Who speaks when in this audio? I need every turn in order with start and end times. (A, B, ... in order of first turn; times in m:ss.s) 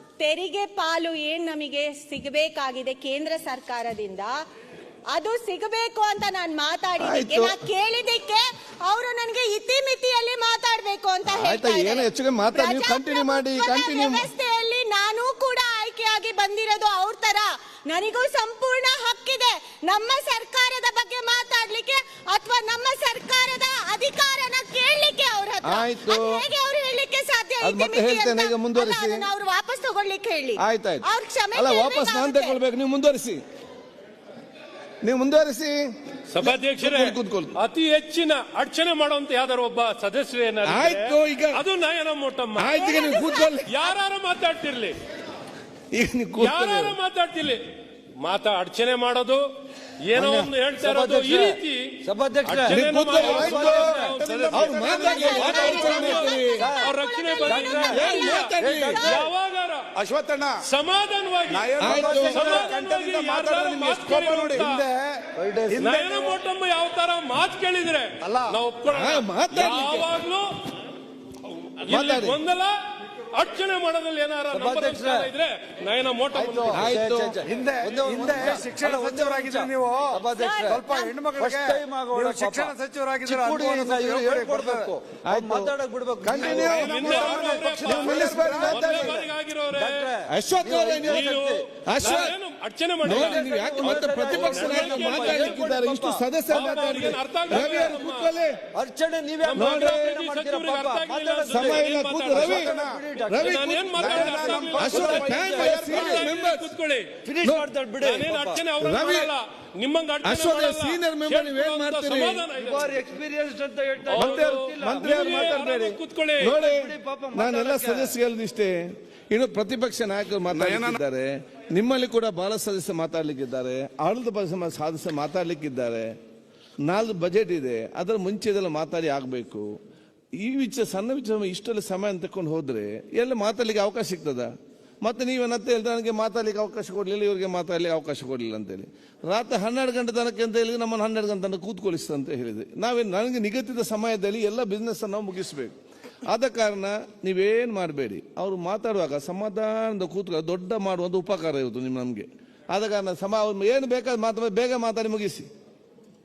0:00.2-0:04.4 A
0:05.1-0:32.6 A
0:07.0-0:07.6 B
0:11.3-0:14.3 B
0:25.6-0:26.4 B
0:27.6-0:29.3 B
0:30.6-0:33.4 B
0:35.0-0:35.8 B
0:36.3-0:42.8 C
0:36.4-0:37.6 B
0:40.6-0:41.6 B
0:42.6-0:43.7 B
0:42.7-0:43.9 A
0:43.7-0:45.0 C
0:45.9-0:47.0 B
0:46.4-0:47.6 C
0:48.2-0:49.4 C
0:50.1-0:51.8 C
0:50.2-0:50.5 B
0:50.8-0:56.0 D
0:52.4-0:59.9 C
0:52.7-0:56.6 B
0:53.2-0:56.2 E
0:54.9-0:59.3 A
0:56.5-0:56.9 D
0:57.4-0:58.1 D
0:57.9-0:59.0 B
0:58.6-0:59.3 D
1:00.0-1:00.6 E
1:00.6-1:04.8 C
1:01.5-1:06.4 E
1:01.8-1:02.4 B
1:01.8-1:02.7 D
1:05.4-1:06.0 D
1:05.8-1:10.5 C
1:08.2-1:08.6 E
1:08.9-1:10.1 B
1:11.8-1:12.8 C
1:11.9-1:12.4 B
1:13.3-1:16.9 C
1:14.5-1:15.3 D
1:16.3-1:29.2 D
1:16.7-1:17.4 B
1:17.4-1:24.9 E
1:20.3-1:21.2 A
1:25.3-1:29.2 B
1:26.3-1:29.2 E
1:26.4-1:30.1 C
1:29.8-1:31.7 D
1:30.3-1:31.3 B
1:31.0-1:35.6 C
1:31.9-1:32.4 B
1:33.0-1:38.6 B
1:33.1-1:37.1 D
1:36.5-1:38.4 C
1:38.7-1:46.2 D
1:39.4-1:42.7 C
1:39.6-1:40.2 B
1:41.5-1:46.7 B
1:42.6-1:43.0 E
1:43.4-1:47.1 C
1:43.9-1:46.2 E
1:47.2-1:48.6 D
1:47.4-1:47.7 B
1:48.0-1:53.0 C
1:48.8-1:49.3 B
1:50.2-1:52.4 B
1:52.5-1:55.6 D
1:54.1-1:56.6 C
1:54.2-1:58.8 B
1:56.4-1:58.2 D
1:59.3-2:06.1 B
2:00.7-2:00.9 E
2:06.9-2:09.7 B
2:10.4-2:14.5 B
2:15.0-2:25.7 B
2:26.3-2:35.5 B